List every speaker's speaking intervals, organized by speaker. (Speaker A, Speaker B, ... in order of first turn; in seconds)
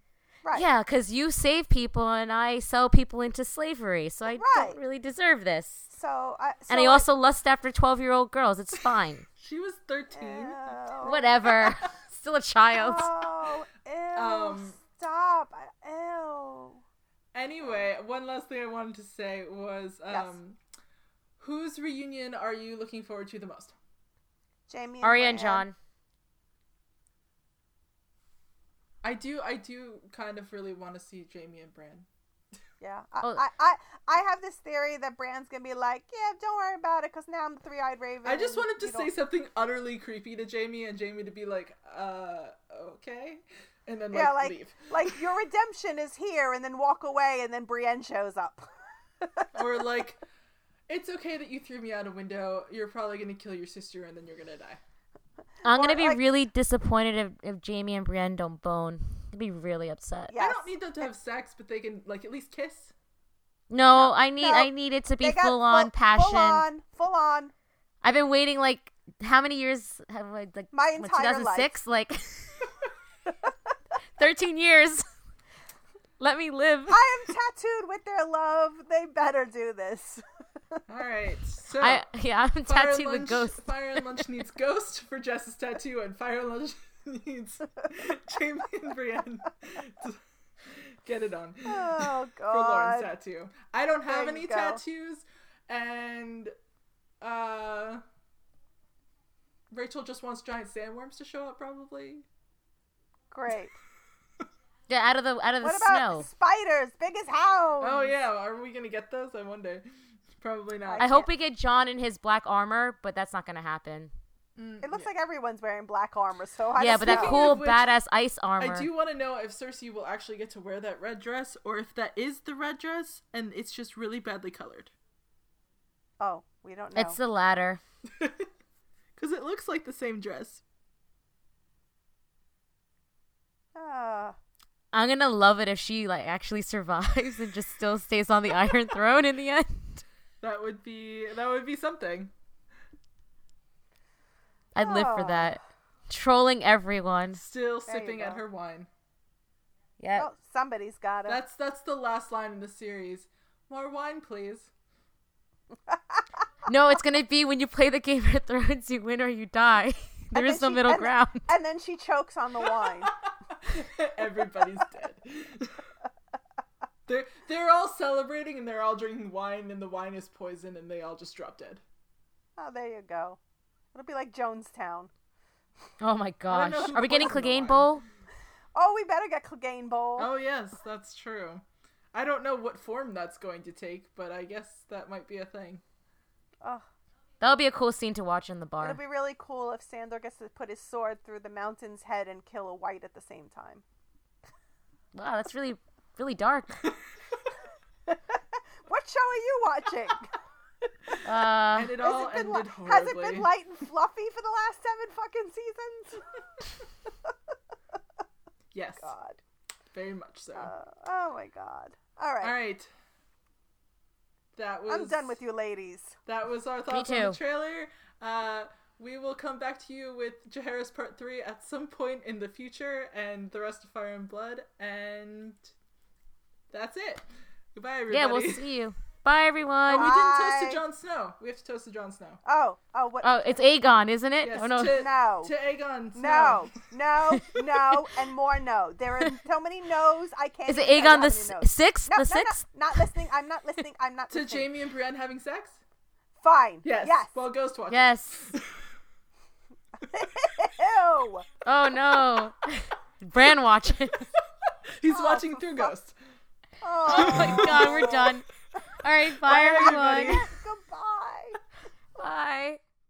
Speaker A: 0.5-5.9, 6.7-9.2, 11.0-13.1, 25.0-25.7, 55.6-60.3, 63.7-66.7, 68.0-72.6, 74.2-75.0, 76.2-77.0, 81.8-84.2, 104.9-106.3, 111.0-114.1, 116.8-118.9, 126.9-127.8, 134.9-140.0, 144.7-147.4, 150.0-150.3, 156.7-161.4, 176.0-178.0, 187.4-189.0, 195.1-196.8, 201.2-201.9, 216.9-217.4, 228.1-230.1, 233.2-235.1, 240.7-242.7, 247.9-248.5, 251.6-254.1, 257.1-258.4, 259.0-260.4, 262.2-262.8
Speaker B: 4.3-4.8, 5.9-7.1, 10.1-11.3, 12.7-16.8, 17.6-17.9, 20.1-20.4, 24.7-25.7, 32.8-39.1, 44.1-48.7, 49.2-49.6, 55.6-56.2, 60.3-60.8, 63.9-67.5, 70.7-71.7, 76.9-80.8, 91.7-93.1, 94.1-94.8, 103.3-103.8, 105.6-108.2, 110.8-111.3, 114.8-117.6, 126.2-127.2, 133.7-134.4, 144.8-145.6, 147.9-148.4, 150.1-151.4, 155.9-156.2, 160.3-163.1, 172.6-173.4, 173.9-175.1, 177.3-177.5, 178.7-180.3, 188.8-193.8, 198.1-200.3, 202.0-206.2, 209.0-209.4, 210.5-212.5, 214.9-216.2, 229.9-230.8, 232.4-233.7, 234.9-235.5, 236.1-244.7, 246.4-247.3, 250.0-251.4, 255.1-255.9, 256.8-258.4, 259.7-261.6
Speaker C: 9.4-11.7, 14.1-14.8, 17.3-20.6, 21.4-23.8, 29.0-32.0, 38.2-45.2, 49.5-50.2, 50.9-54.8, 60.3-62.9, 80.9-82.0, 82.6-90.2, 90.7-96.5, 97.2-98.0, 99.7-102.2, 107.8-109.8, 110.4-111.0, 114.6-115.1, 116.8-118.0, 118.6-124.9, 129.2-130.6, 140.4-142.3, 147.3-148.9, 151.2-154.7, 163.7-165.8, 167.1-171.8, 176.5-177.9, 180.2-181.6, 182.1-185.8, 201.7-203.5, 208.7-209.1, 209.9-210.7, 212.4-212.9, 214.5-215.4, 216.2-225.6, 226.7-228.7, 229.9-232.4, 234.4-236.7, 244.3-245.8, 246.8-248.6, 255.0-256.1, 257.1-258.1, 259.4-260.4